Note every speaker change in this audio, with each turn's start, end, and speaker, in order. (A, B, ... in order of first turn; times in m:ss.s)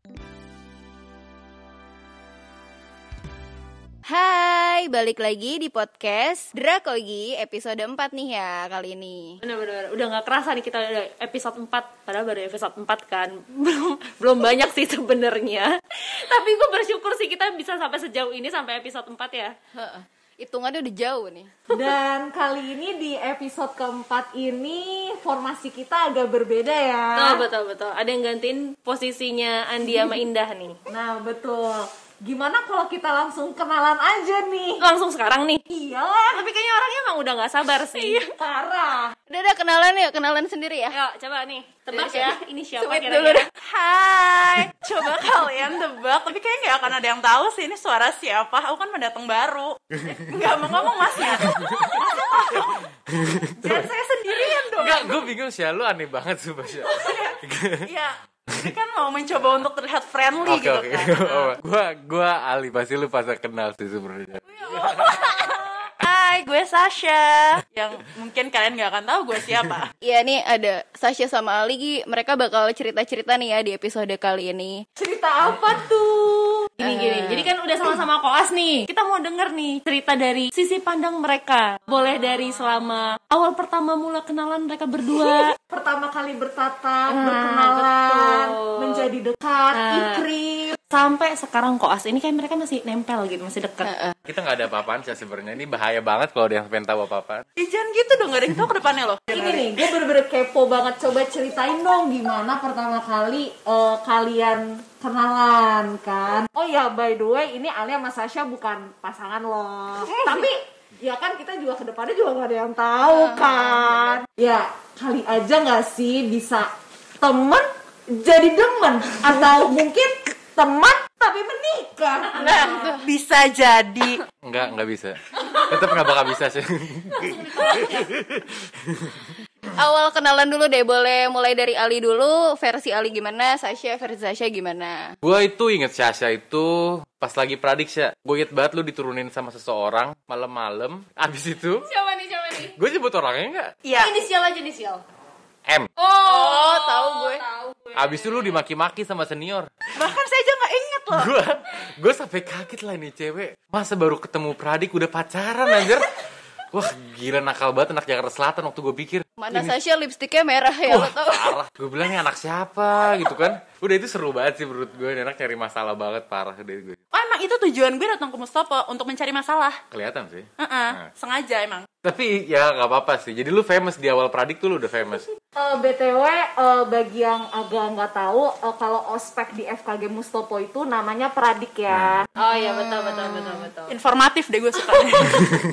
0:04.1-0:09.4 A
0:09.4-0:19.6 B
0:19.8-0:21.7 A
0:21.7-0:27.4 C
0:27.2-0:30.8 B
0:30.9-0:34.8 C
0:34.8-0:35.6 B
0:35.7-0:36.5 C
0:36.3-0:38.3 B
0:38.1-0:39.2 C
0:39.3-0:41.0 A
0:40.9-0:43.5 B
0:41.9-0:43.5 A
0:43.6-0:52.8 D
0:51.3-0:52.0 E
0:53.1-0:53.9 E
0:53.6-0:55.3 D
0:54.8-0:57.9 E
0:56.9-1:01.5 D
1:00.4-1:05.1 E
1:04.5-1:09.9 D
1:10.0-1:14.8 A
1:15.0-1:16.2 C
1:15.5-1:25.6 B
1:16.8-1:17.5 A
1:25.6-1:30.8 C
1:27.1-1:29.1 B
1:29.7-1:30.2 B
1:30.9-1:33.9 B
1:33.8-1:34.2 A
1:34.3-1:37.4 E
1:37.6-1:39.7 D
1:39.3-2:03.0 C
1:50.1-1:50.5 A
1:53.1-1:54.2 A
2:02.4-2:04.2 D
2:02.4-2:03.0 A
2:04.4-2:09.3 E
2:07.4-2:08.0 B
2:09.7-2:15.1 A
2:15.2-2:21.9 E
2:21.8-2:22.8 B
2:22.8-2:23.8 E
2:23.8-2:24.1 D
2:24.0-2:25.0 B
2:26.0-2:28.6 B
2:26.2-2:27.4 A
2:28.0-2:29.7 E
2:30.0-2:31.3 D
2:31.1-2:36.2 E
2:36.7-2:39.8 E
2:39.4-2:41.6 A
2:40.9-2:47.0 E
2:47.1-2:49.8 D
2:49.9-2:51.1 E
2:50.6-2:51.9 D
2:52.0-2:55.2 E
2:55.6-3:02.3 C
3:01.9-3:02.2 E
3:02.4-3:04.0 B
3:02.4-3:03.7 A
3:03.9-3:05.5 D